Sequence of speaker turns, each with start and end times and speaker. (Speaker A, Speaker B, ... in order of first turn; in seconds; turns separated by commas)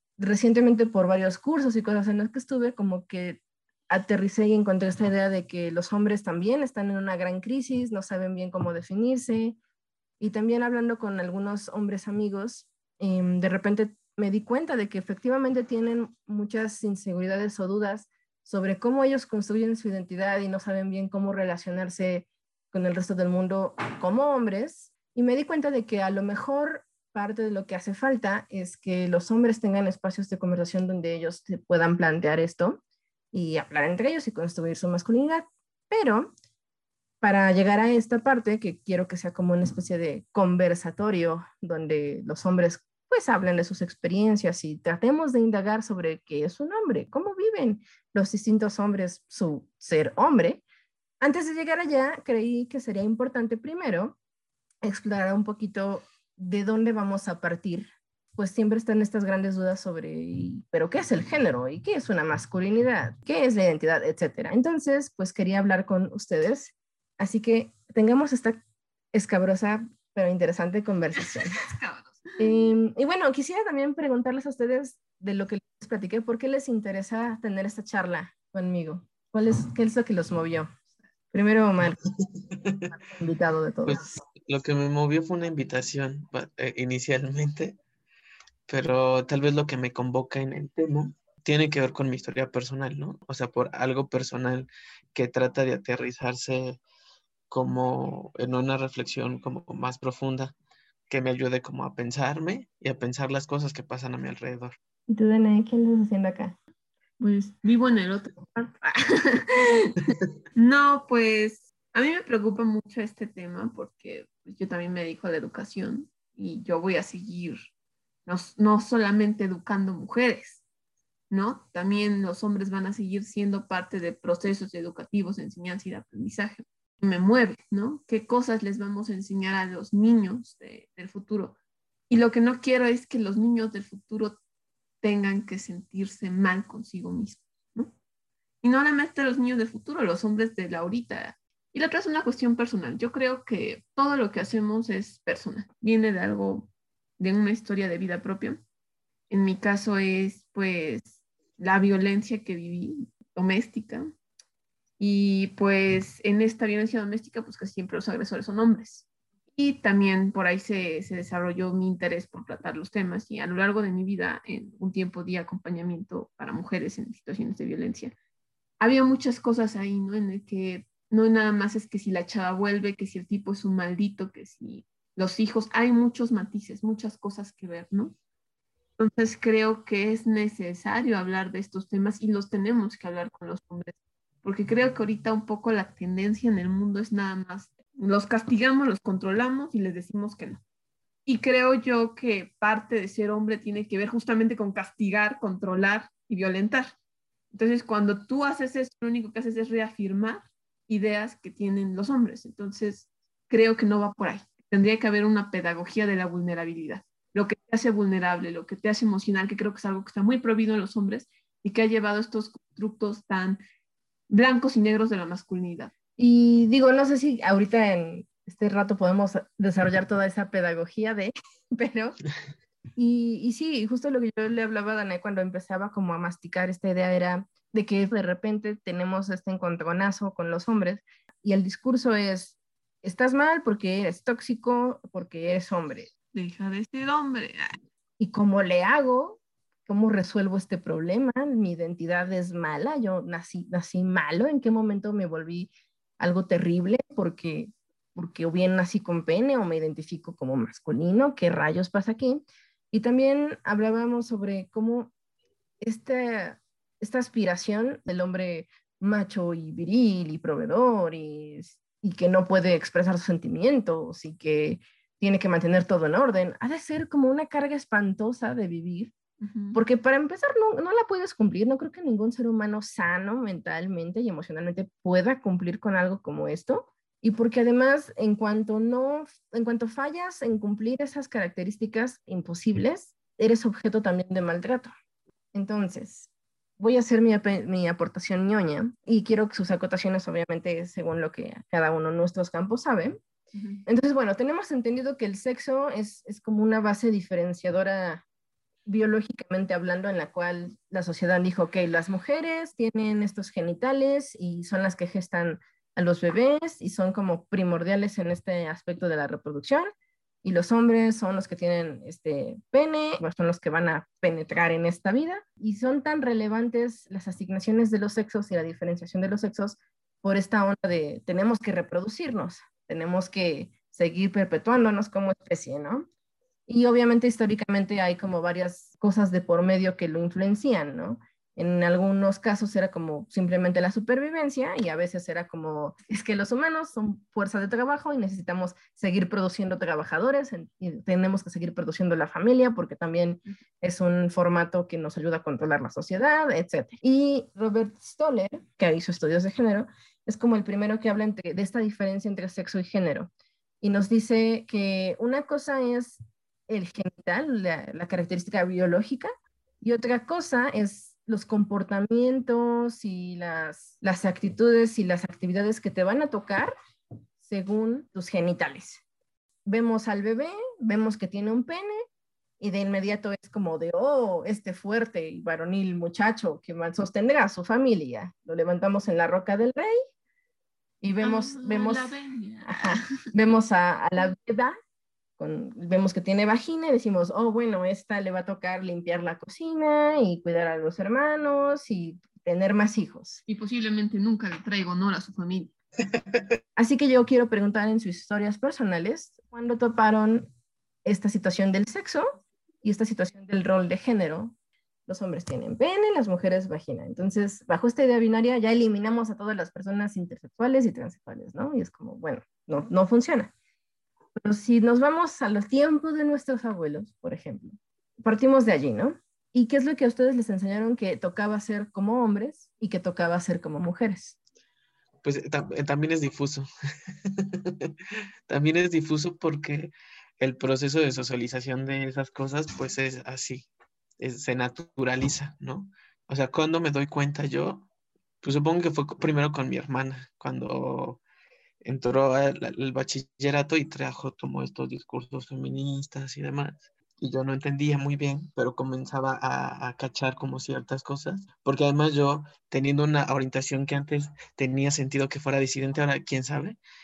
Speaker A: 0.2-9.6, Speaker A: 10.2-32.8, Speaker A: 33.3-36.3, Speaker A: 37.2-50.6, Speaker A: 51.2-54.2, Speaker A: 54.8-68.6, Speaker A: 69.1-71.6, Speaker B: 71.2-72.5, Speaker A: 72.4-80.7, Speaker A: 81.3-82.0, Speaker C: 82.5-82.9, Speaker A: 83.0-84.1, Speaker C: 83.9-87.8, Speaker C: 88.7-96.8, Speaker C: 97.5-100.5, Speaker C: 101.1-104.8, Speaker A: 105.1-106.6, Speaker B: 107.2-117.7, Speaker B: 118.3-120.6, Speaker B: 121.3-131.6, Speaker B: 132.1-134.4, Speaker B: 135.0-137.9, Speaker B: 138.6-148.6, Speaker B: 149.3-154.1, Speaker B: 155.0-168.1, Speaker B: 168.8-178.1, Speaker B: 179.0-190.6, Speaker B: 191.2-196.9, Speaker B: 197.5-213.6, Speaker B: 214.3-215.9, Speaker A: 216.2-222.2, Speaker A: 223.0-236.1, Speaker B: 236.3-237.8, Speaker A: 238.2-255.1, Speaker A: 255.8-269.1, Speaker B: 269.4-269.8, Speaker A: 269.7-284.9, Speaker A: 285.5-286.3, Speaker A: 286.8-293.2, Speaker B: 293.5-293.8, Speaker A: 293.9-298.2, Speaker A: 298.9-309.9, Speaker A: 310.4-326.1, Speaker A: 326.7-353.3, Speaker A: 353.8-359.3, Speaker A: 359.8-366.7, Speaker A: 367.4-369.0, Speaker A: 369.6-372.0, Speaker A: 372.6-380.0, Speaker A: 381.0-382.1, Speaker B: 381.2-383.1, Speaker A: 382.6-384.7, Speaker A: 385.4-393.4, Speaker B: 393.5-395.7, Speaker A: 396.8-400.5, Speaker A: 401.0-402.3, Speaker A: 402.8-404.5, Speaker A: 405.1-413.5, Speaker A: 414.4-424.4, Speaker C: 425.2-426.7, Speaker C: 427.2-427.9, Speaker C: 428.5-433.7, Speaker C: 434.2-437.9, Speaker C: 438.4-441.2, Speaker C: 441.8-456.8